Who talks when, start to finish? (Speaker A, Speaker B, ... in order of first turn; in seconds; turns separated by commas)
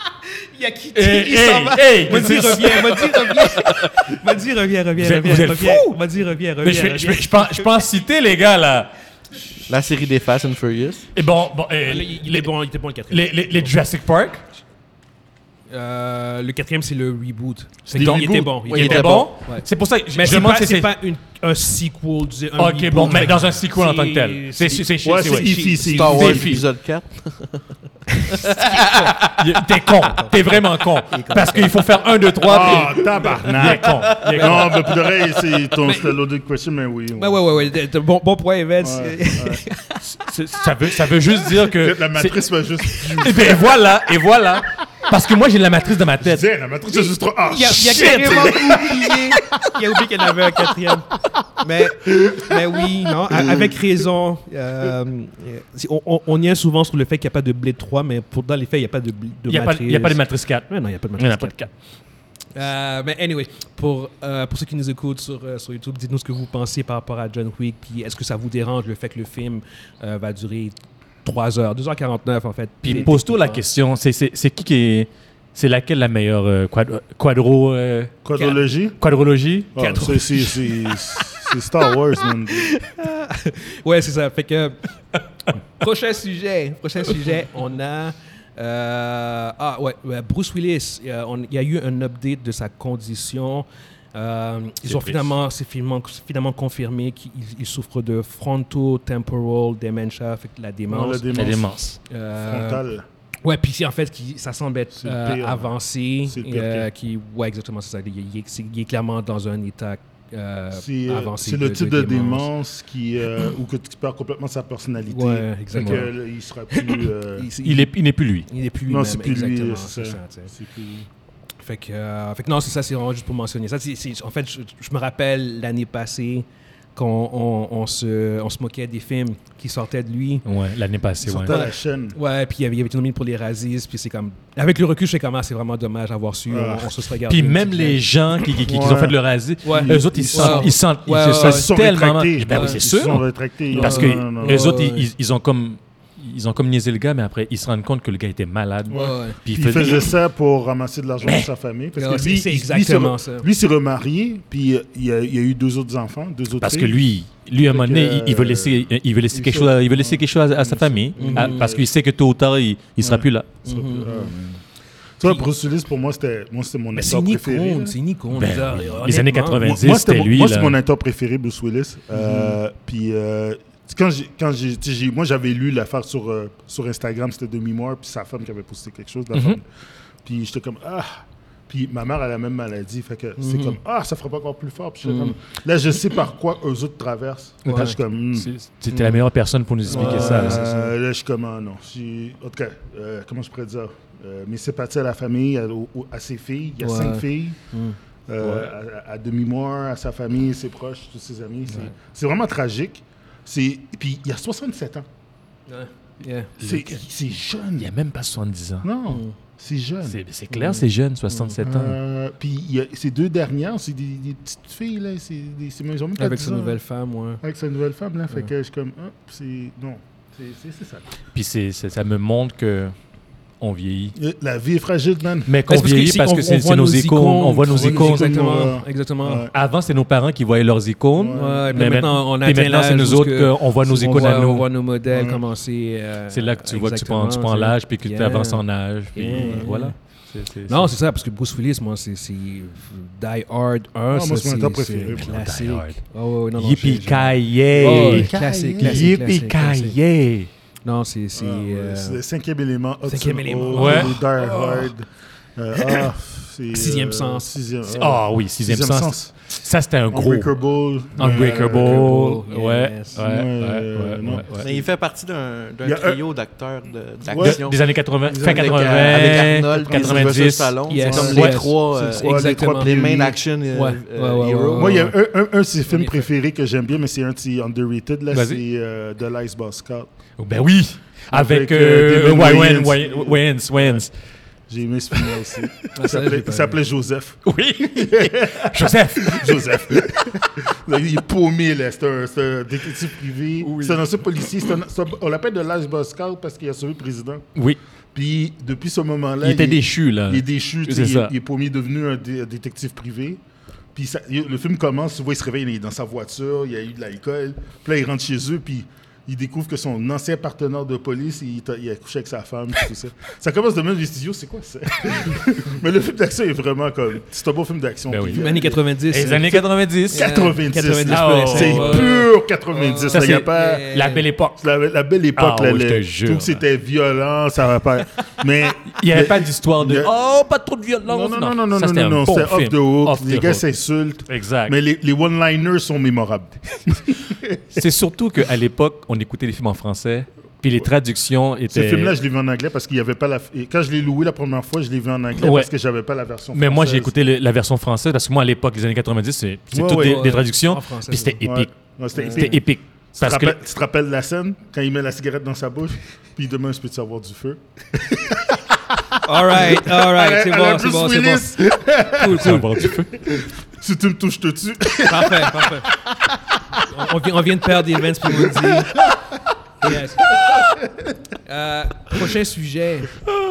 Speaker A: 0.3-7.8, Speaker B: 0.9-4.2, Speaker B: 5.0-6.0, Speaker B: 6.6-8.9, Speaker C: 9.7-11.1, Speaker B: 11.2-12.5, Speaker A: 11.9-13.8, Speaker B: 13.1-14.4, Speaker A: 15.7-26.4, Speaker D: 17.9-18.6, Speaker B: 17.9-20.9, Speaker C: 18.7-19.3, Speaker B: 22.6-26.6, Speaker D: 25.0-26.6, Speaker C: 25.9-27.7, Speaker A: 28.2-29.1, Speaker C: 28.4-29.1, Speaker B: 28.6-34.9, Speaker A: 30.1-31.8, Speaker D: 32.4-37.4, Speaker A: 32.6-33.6, Speaker C: 34.0-34.6, Speaker A: 34.2-34.7, Speaker A: 35.8-36.2, Speaker A: 37.1-40.3, Speaker D: 38.8-39.6, Speaker B: 40.0-46.5, Speaker D: 41.7-43.8, Speaker D: 46.2-49.2, Speaker A: 47.4-61.6, Speaker B: 47.7-49.6, Speaker D: 52.0-53.8, Speaker B: 59.5-61.7, Speaker A: 62.5-73.6, Speaker B: 72.8-78.2, Speaker D: 78.2-79.0, Speaker B: 79.0-79.7, Speaker D: 79.8-82.7, Speaker A: 79.8-81.9, Speaker A: 82.5-84.8, Speaker A: 85.7-101.3, Speaker B: 94.8-95.3, Speaker D: 100.9-101.7, Speaker B: 101.3-102.0, Speaker A: 102.1-102.8, Speaker D: 102.4-103.0, Speaker A: 103.4-112.5, Speaker D: 104.9-105.7, Speaker D: 106.3-106.9, Speaker D: 110.7-117.5, Speaker A: 115.1-116.1, Speaker B: 115.8-116.1, Speaker A: 116.7-118.0, Speaker B: 117.6-118.5, Speaker A: 118.5-120.5, Speaker D: 118.9-121.1, Speaker A: 121.6-130.4, Speaker B: 130.5-131.6, Speaker D: 131.2-132.2, Speaker A: 131.5-138.1, Speaker D: 136.5-136.9, Speaker B: 137.3-150.1, Speaker D: 138.6-144.8, Speaker A: 139.6-141.7, Speaker A: 142.5-142.8, Speaker A: 143.7-145.1, Speaker A: 148.9-149.4, Speaker D: 148.9-157.0, Speaker B: 151.2-151.5, Speaker A: 152.0-153.5, Speaker B: 156.6-164.2, Speaker D: 157.6-161.9, Speaker A: 161.2-161.7, Speaker D: 163.0-164.5, Speaker A: 163.7-164.3, Speaker D: 165.2-168.0, Speaker A: 165.2-165.5, Speaker A: 166.9-169.6, Speaker B: 168.3-170.8, Speaker D: 169.6-179.7, Speaker A: 172.2-172.5, Speaker B: 179.3-179.6, Speaker D: 180.2-188.5, Speaker A: 183.4-183.8, Speaker A: 185.0-185.4, Speaker A: 187.7-188.0, Speaker B: 188.3-190.7, Speaker A: 188.9-189.2, Speaker A: 189.9-190.9, Speaker D: 189.9-197.6, Speaker A: 196.8-198.0, Speaker D: 198.3-205.1, Speaker B: 198.4-198.7, Speaker A: 205.7-206.5, Speaker D: 206.6-207.9, Speaker B: 206.6-207.0, Speaker B: 207.8-208.9, Speaker D: 208.8-210.2, Speaker A: 209.1-209.4, Speaker B: 210.1-212.0, Speaker A: 210.5-211.6, Speaker D: 211.6-216.8, Speaker A: 216.2-217.4, Speaker D: 217.4-221.1, Speaker B: 221.3-222.9, Speaker B: 223.6-224.2, Speaker D: 224.2-225.5, Speaker B: 225.5-228.6, Speaker A: 225.7-229.5, Speaker D: 227.7-229.5, Speaker B: 229.5-234.7, Speaker D: 231.2-231.8, Speaker A: 231.3-238.6, Speaker D: 235.1-235.4, Speaker B: 236.3-240.9, Speaker A: 239.1-239.9, Speaker D: 239.3-239.7, Speaker A: 240.7-250.0, Speaker D: 244.1-245.3, Speaker B: 245.1-246.0, Speaker B: 246.6-250.5, Speaker D: 247.7-249.2, Speaker A: 250.8-252.2, Speaker D: 251.3-259.3, Speaker A: 253.1-254.9, Speaker B: 253.7-254.2, Speaker A: 255.8-256.1, Speaker A: 256.7-257.5, Speaker B: 257.9-260.5, Speaker D: 260.1-262.1, Speaker B: 261.2-264.7, Speaker A: 261.2-263.2, Speaker D: 263.2-264.9, Speaker C: 264.6-275.0, Speaker D: 265.8-266.2, Speaker D: 267.3-267.6, Speaker B: 267.3-271.7, Speaker D: 268.2-270.4, Speaker A: 270.9-272.9, Speaker D: 271.0-273.4, Speaker A: 273.7-275.2, Speaker D: 274.8-280.1, Speaker A: 275.9-276.3, Speaker B: 278.3-278.6, Speaker B: 280.4-284.1, Speaker D: 281.3-284.1, Speaker D: 284.7-297.4, Speaker B: 285.1-285.5, Speaker A: 285.9-286.8, Speaker B: 287.4-289.8, Speaker B: 293.6-294.1, Speaker D: 298.1-303.4, Speaker B: 299.4-301.3, Speaker D: 303.9-318.8, Speaker B: 318.1-318.4, Speaker A: 318.3-324.2, Speaker B: 319.1-320.3, Speaker D: 320.1-323.9, Speaker B: 321.1-322.3, Speaker B: 323.1-324.6, Speaker D: 324.6-330.1, Speaker B: 325.4-326.6, Speaker B: 328.9-333.6, Speaker D: 331.1-337.8, Speaker B: 334.3-334.8, Speaker B: 337.8-342.1, Speaker D: 341.7-347.1, Speaker B: 345.4-345.7, Speaker B: 346.5-353.6, Speaker D: 349.7-350.4, Speaker A: 349.9-351.4, Speaker D: 351.4-365.8, Speaker A: 352.1-352.5, Speaker A: 359.2-361.6, Speaker B: 362.2-363.2, Speaker A: 362.2-362.6, Speaker A: 365.0-365.9, Speaker A: 366.8-369.0, Speaker D: 368.3-369.2, Speaker A: 369.8-370.5, Speaker D: 370.5-371.1, Speaker A: 371.4-373.2